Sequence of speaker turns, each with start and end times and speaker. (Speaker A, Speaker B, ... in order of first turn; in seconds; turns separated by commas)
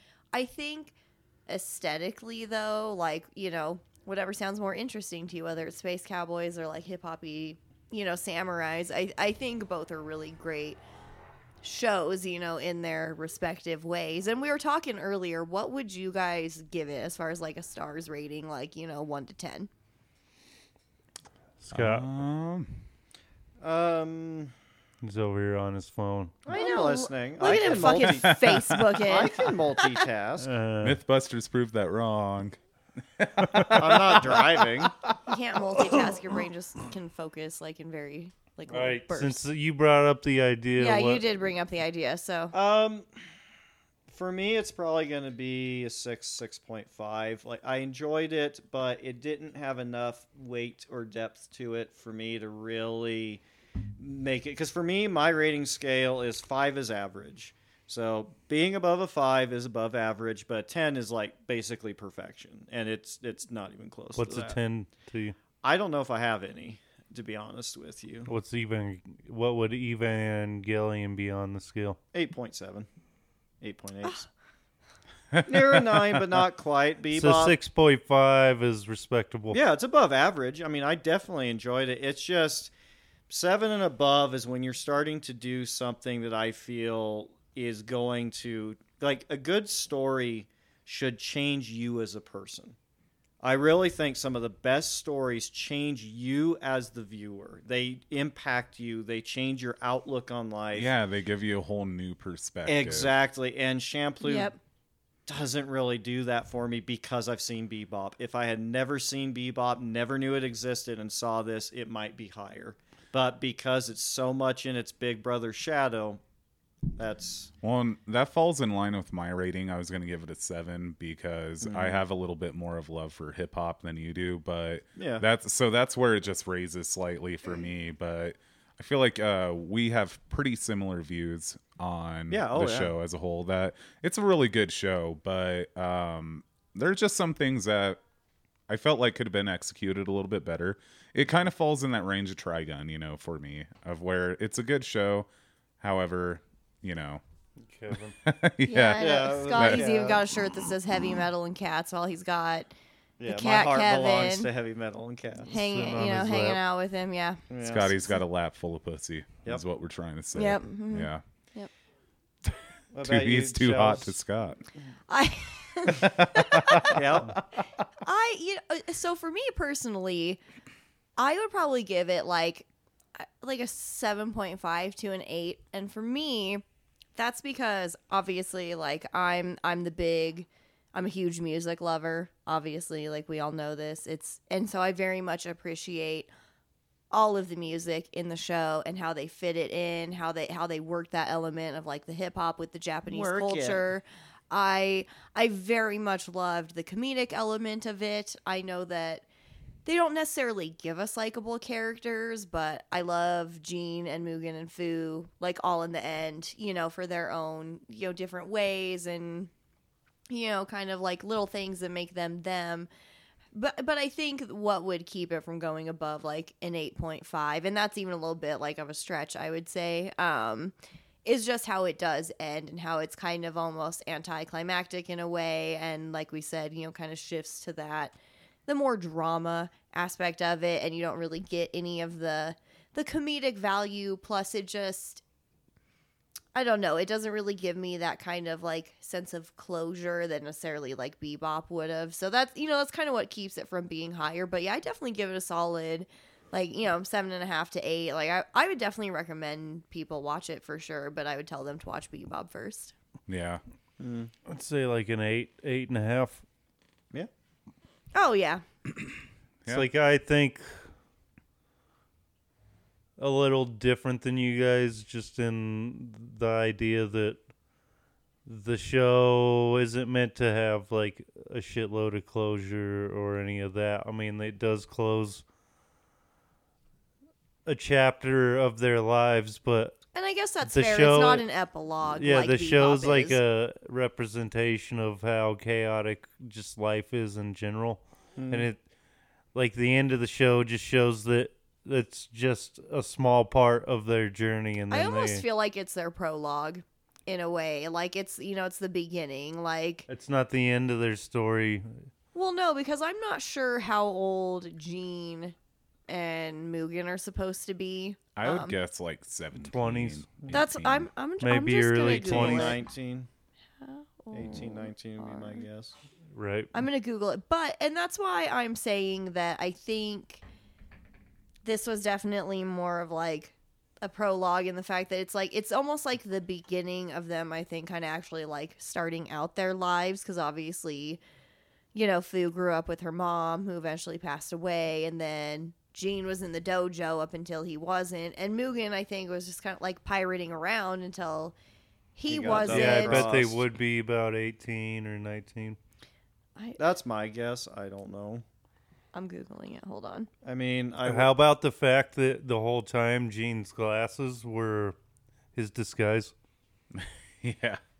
Speaker A: 0.3-0.9, Speaker A: 1.5-10.8, Speaker A: 11.6-19.7, Speaker B: 21.6-22.1, Speaker C: 21.7-22.8, Speaker D: 23.6-24.5, Speaker B: 25.0-26.3, Speaker D: 26.4-28.4, Speaker A: 26.5-29.9, Speaker C: 27.5-28.9, Speaker D: 29.0-30.5, Speaker B: 30.4-31.0, Speaker C: 30.8-32.6, Speaker C: 33.2-34.8, Speaker B: 33.4-33.8, Speaker D: 33.7-35.0, Speaker A: 35.3-39.4, Speaker B: 38.7-41.2, Speaker A: 40.8-42.5, Speaker D: 42.5-43.1, Speaker D: 44.1-53.4, Speaker D: 54.0-64.6, Speaker B: 64.2-65.3, Speaker D: 65.6-68.3, Speaker B: 68.3-72.0, Speaker D: 72.1-72.9, Speaker D: 73.6-74.3, Speaker C: 75.3-76.4, Speaker D: 75.5-77.5, Speaker B: 77.1-79.6, Speaker D: 79.5-82.7, Speaker D: 83.3-92.8, Speaker D: 93.4-100.9, Speaker C: 100.7-103.2, Speaker D: 102.7-104.5, Speaker A: 104.2-104.6, Speaker D: 105.3-116.2, Speaker D: 117.0-117.5, Speaker C: 117.6-138.0, Speaker D: 121.6-122.0, Speaker D: 125.0-125.2, Speaker D: 132.3-132.9, Speaker C: 138.7-145.3, Speaker C: 145.8-147.2, Speaker B: 147.6-148.2, Speaker C: 147.9-149.9, Speaker A: 148.6-152.7, Speaker D: 149.0-150.2, Speaker D: 153.2-155.5, Speaker A: 153.2-154.5, Speaker A: 155.5-157.4, Speaker B: 155.5-156.6, Speaker D: 157.5-158.0, Speaker C: 157.6-161.2, Speaker A: 160.3-161.7, Speaker C: 162.4-164.6, Speaker D: 162.9-164.1, Speaker A: 165.1-167.0, Speaker C: 165.9-166.9, Speaker D: 166.9-167.4, Speaker A: 168.0-170.4, Speaker A: 171.2-176.6, Speaker A: 177.2-186.3, Speaker A: 187.1-199.2, Speaker D: 193.1-193.8, Speaker A: 199.8-209.5, Speaker A: 210.3-212.9, Speaker A: 213.5-220.7, Speaker A: 221.2-228.2, Speaker A: 228.7-235.2, Speaker A: 236.5-252.9, Speaker C: 253.3-253.6, Speaker D: 254.0-254.3, Speaker B: 254.5-256.4, Speaker A: 258.1-258.6, Speaker B: 259.7-260.8, Speaker B: 263.2-267.4, Speaker B: 268.4-275.4, Speaker B: 277.6-279.9, Speaker A: 280.1-283.4, Speaker B: 280.6-281.4, Speaker B: 282.1-288.8, Speaker D: 288.4-288.7, Speaker B: 289.5-295.4, Speaker A: 294.9-300.1, Speaker B: 300.1-302.1, Speaker A: 302.3-305.5, Speaker A: 306.1-308.8, Speaker C: 308.4-311.1, Speaker B: 309.6-310.3, Speaker A: 310.5-312.8, Speaker B: 311.4-312.8, Speaker D: 312.0-313.3, Speaker A: 313.8-315.6, Speaker D: 314.3-315.9, Speaker B: 316.3-316.7, Speaker A: 316.7-320.4, Speaker A: 321.6-331.2, Speaker A: 331.9-341.5, Speaker A: 342.1-343.4, Speaker D: 342.3-343.6, Speaker B: 342.6-345.8, Speaker D: 346.8-348.4, Speaker A: 349.1-350.3, Speaker D: 350.4-351.3, Speaker B: 351.1-354.9, Speaker B: 355.5-356.3, Speaker C: 356.9-357.8